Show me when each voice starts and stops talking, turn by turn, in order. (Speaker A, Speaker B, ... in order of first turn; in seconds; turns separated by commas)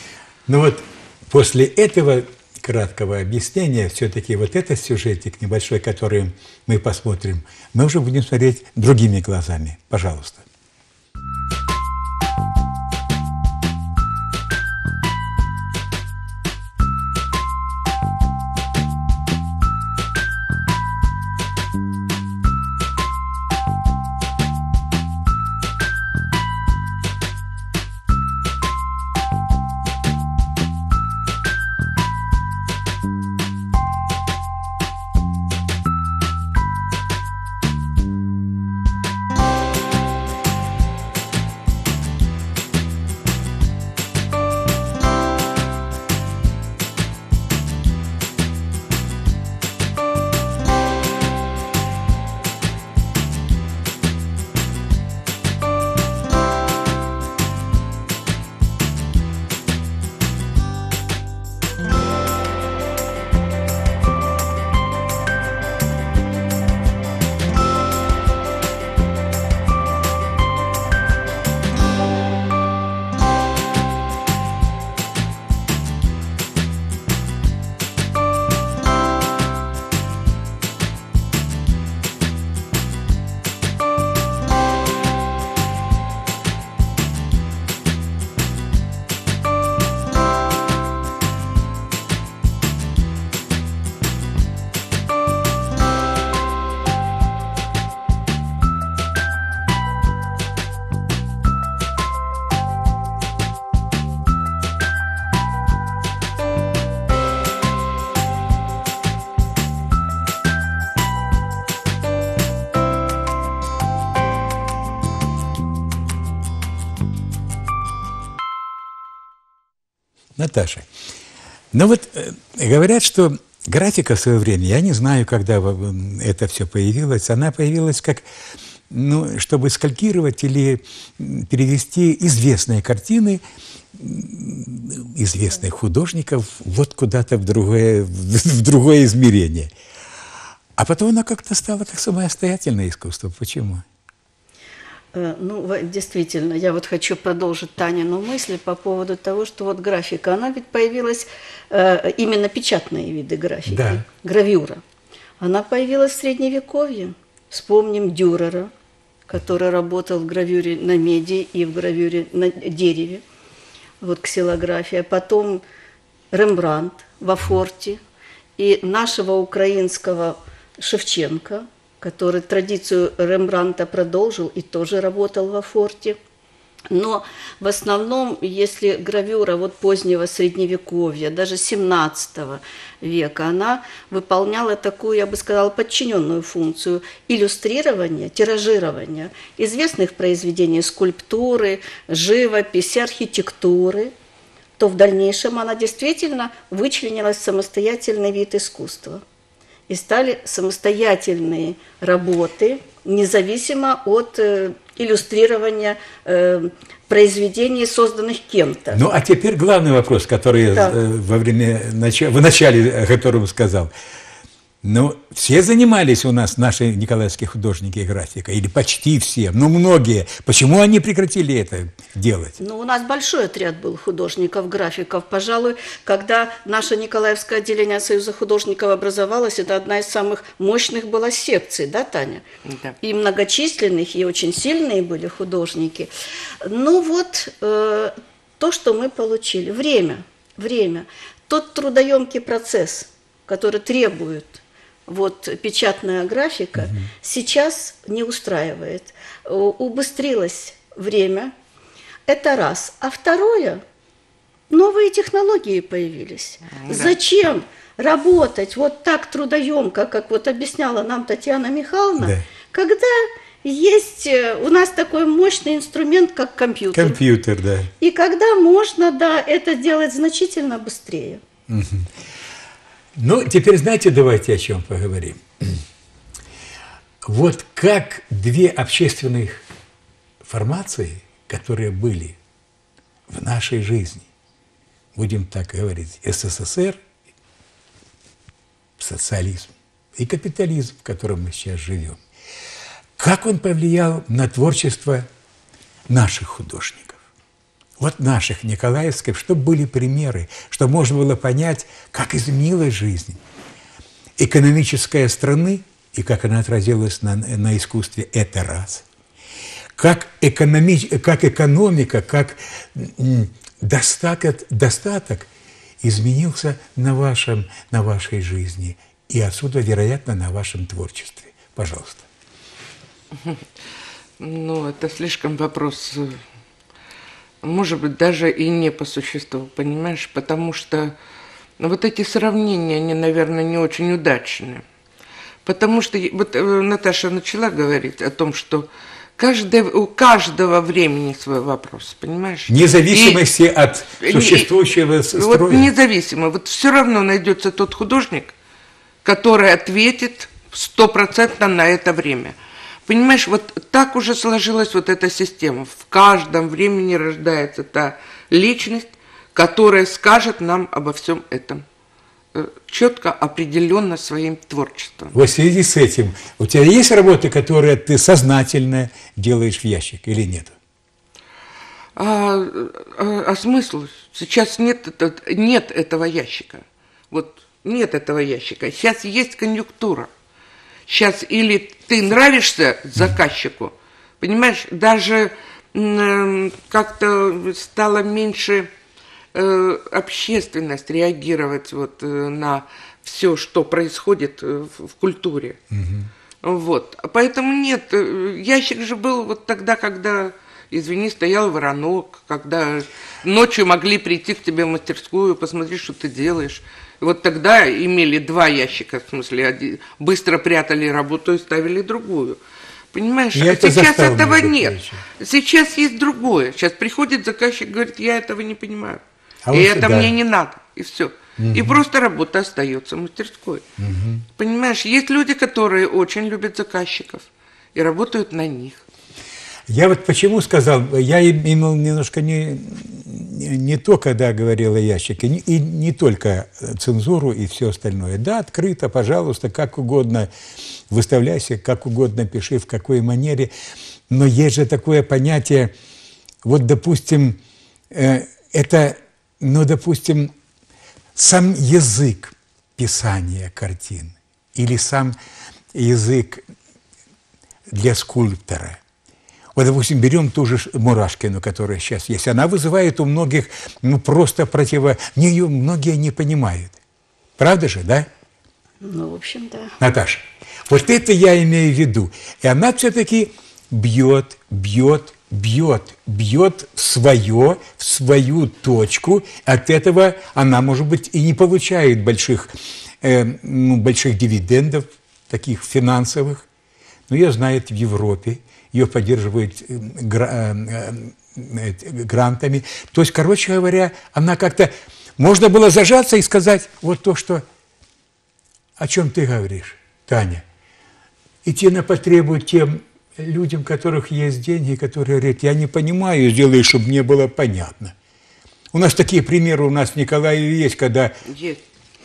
Speaker A: 0.5-10.4, Speaker A: 120.3-120.9, Speaker A: 121.7-128.2, Speaker A: 128.9-133.4, Speaker A: 133.9-139.7, Speaker A: 140.8-143.8, Speaker B: 145.1-154.8, Speaker A: 153.7-154.0, Speaker B: 155.4-158.7, Speaker B: 159.3-163.2, Speaker B: 164.0-165.6, Speaker B: 166.3-168.0, Speaker B: 168.6-176.2, Speaker B: 176.9-194.1, Speaker B: 194.8-199.2, Speaker B: 199.9-209.0, Speaker A: 208.9-213.9, Speaker A: 214.8-222.6, Speaker B: 222.6-232.4, Speaker C: 232.6-233.0, Speaker B: 233.0-236.1, Speaker B: 236.6-251.5, Speaker B: 252.3-253.8, Speaker B: 254.7-267.2, Speaker C: 256.7-257.2, Speaker A: 266.9-267.9, Speaker B: 268.0-271.4, Speaker A: 271.7-272.1, Speaker A: 273.1-275.8, Speaker A: 277.2-279.6, Speaker A: 280.4-282.4, Speaker A: 283.3-284.3, Speaker A: 285.1-287.0, Speaker A: 289.0-292.2, Speaker A: 293.2-295.3, Speaker A: 296.1-297.2, Speaker A: 298.0-303.4, Speaker A: 304.4-309.0, Speaker A: 309.9-315.5, Speaker A: 316.0-322.2, Speaker C: 323.3-323.7, Speaker C: 324.4-326.4, Speaker C: 327.6-331.1, Speaker C: 331.8-334.8, Speaker C: 335.6-343.4, Speaker A: 342.7-345.9, Speaker C: 344.2-344.7, Speaker C: 345.3-348.5, Speaker C: 349.2-352.5, Speaker C: 353.1-361.8, Speaker C: 362.5-365.3, Speaker A: 365.3-370.8, Speaker C: 372.1-380.3, Speaker C: 381.1-388.9, Speaker C: 389.5-395.8, Speaker A: 395.9-396.3, Speaker C: 396.6-412.6, Speaker C: 413.1-423.8, Speaker A: 413.5-415.2, Speaker A: 419.6-420.3, Speaker A: 421.6-422.0, Speaker A: 424.0-424.4, Speaker C: 424.6-429.0, Speaker A: 429.9-440.5, Speaker A: 441.1-443.7, Speaker A: 444.3-445.9, Speaker A: 446.6-447.6, Speaker A: 448.1-450.5, Speaker A: 451.3-455.4, Speaker A: 455.9-456.6, Speaker A: 457.9-459.0, Speaker A: 459.7-467.0, Speaker A: 467.6-468.3, Speaker B: 469.0-469.9, Speaker A: 470.0-486.6, Speaker A: 487.3-497.6, Speaker A: 499.0-500.6, Speaker A: 501.6-508.1, Speaker A: 508.9-511.3, Speaker C: 511.4-511.8